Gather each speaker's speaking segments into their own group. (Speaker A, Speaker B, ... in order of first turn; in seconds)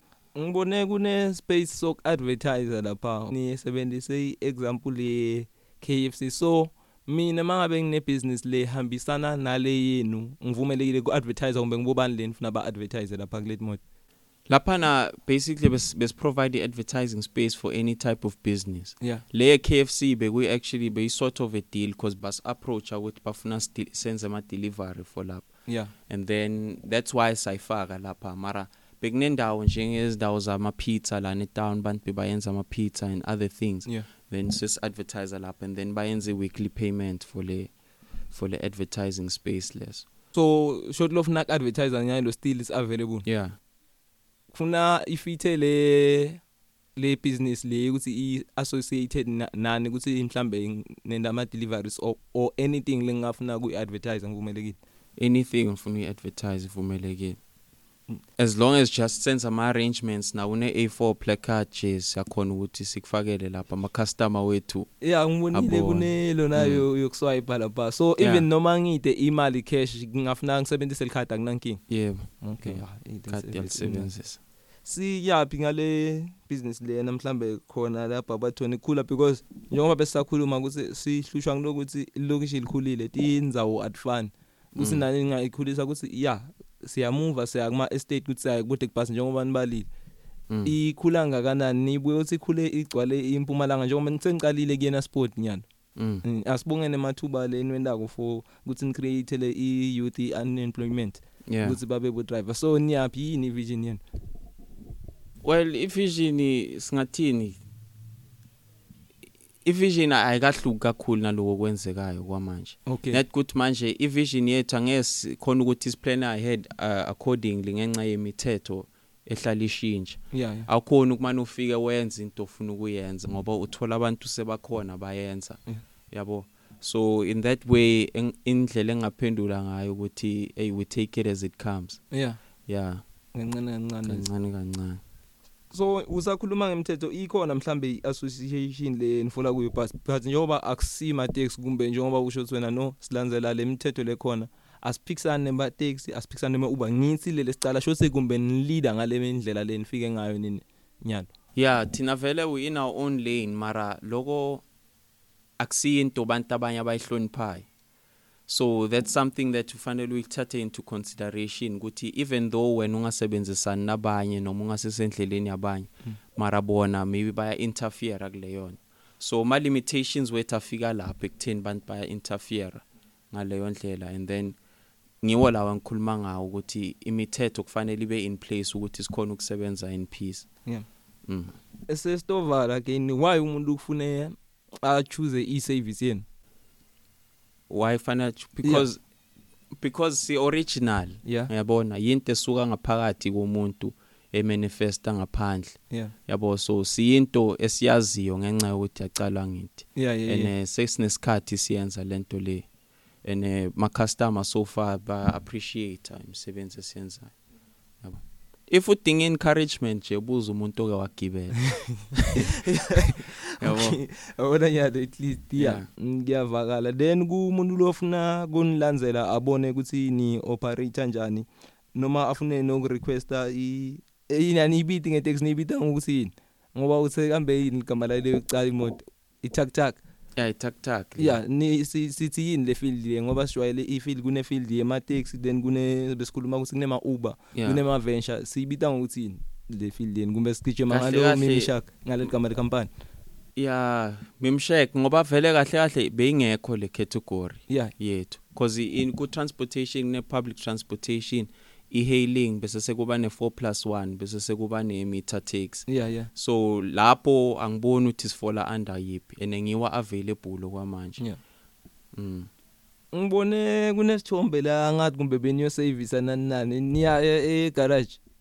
Speaker A: 0.3-13.8, 25.7-25.9, 40.3-43.2, 44.5-46.4, 47.0-54.8, 65.0-71.8, 72.4-74.1, 74.8-89.9, 90.6-95.6, 96.2-104.0, 112.9-113.2, 120.3-120.7, 132.1-132.4, 133.3-134.3, 135.7-151.3, 181.9-186.2, 191.2-191.5, 199.9-200.5, 212.3-230.0, 231.2-242.9, 255.9-256.3, 263.1-268.2
Speaker B: 14.5-25.5, 26.1-37.7, 38.3-40.0, 43.2-43.5, 55.2-57.4, 58.4-64.9, 65.5-66.8, 68.2-68.5, 71.9-74.4, 84.8-85.0, 90.5-90.7, 96.0-96.2, 101.5-101.8, 105.4-107.6, 109.6-125.6, 126.1-132.0, 132.7-133.0, 134.0-135.0, 151.6-154.6, 155.6-157.7, 158.5-174.6, 175.2-180.5, 181.2-181.5, 187.7-189.0, 189.7-202.7, 203.2-207.3, 208.0-214.0, 215.6-215.9, 230.3-231.4, 237.5-237.8, 240.9-241.7, 243.6-261.2, 262.1-262.5